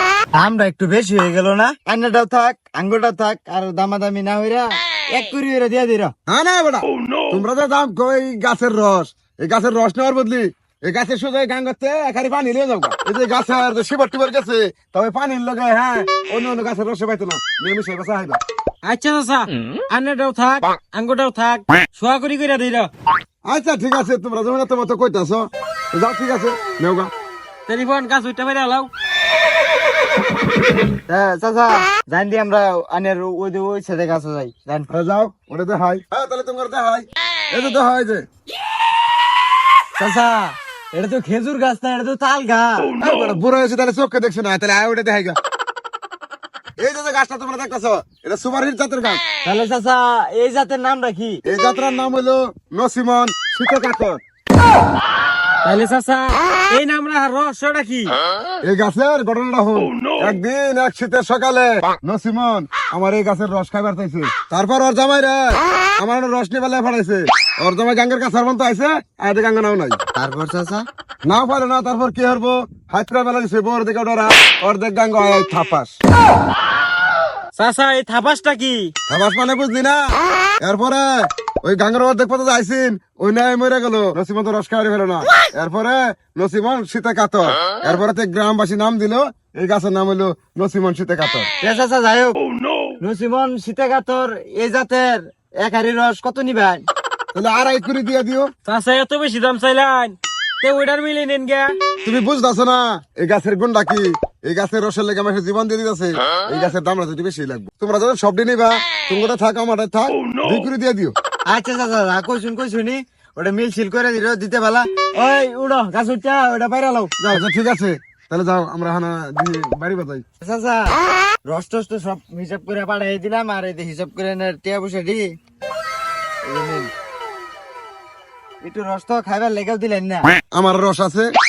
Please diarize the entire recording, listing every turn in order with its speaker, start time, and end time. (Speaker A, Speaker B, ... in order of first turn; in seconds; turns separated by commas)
Speaker A: 0.3-6.1, Speaker B: 6.3-18.4, Speaker C: 18.8-22.9, Speaker B: 23.4-27.1, Speaker C: 27.7-28.9, Speaker A: 31.1-34.9, Speaker B: 34.9-38.2, Speaker A: 40.0-43.0, Speaker B: 43.0-45.4, Speaker B: 46.8-49.2, Speaker A: 49.4-51.4, Speaker B: 51.4-54.2, Speaker C: 55.6-58.2, Speaker B: 58.6-70.0, Speaker A: 70.1-70.8, Speaker B: 71.2-75.9, Speaker C: 77.5-78.9, Speaker B: 79.1-80.0, Speaker B: 80.6-91.5, Speaker A: 91.6-92.4, Speaker A: 93.0-96.8, Speaker B: 97.3-98.5, Speaker C: 98.7-101.8, Speaker B: 102.0-111.1, Speaker A: 111.5-117.4, Speaker B: 117.3-120.2, Speaker A: 120.4-125.3, Speaker A: 126.4-126.9, Speaker A: 128.6-130.3, Speaker B: 130.5-131.3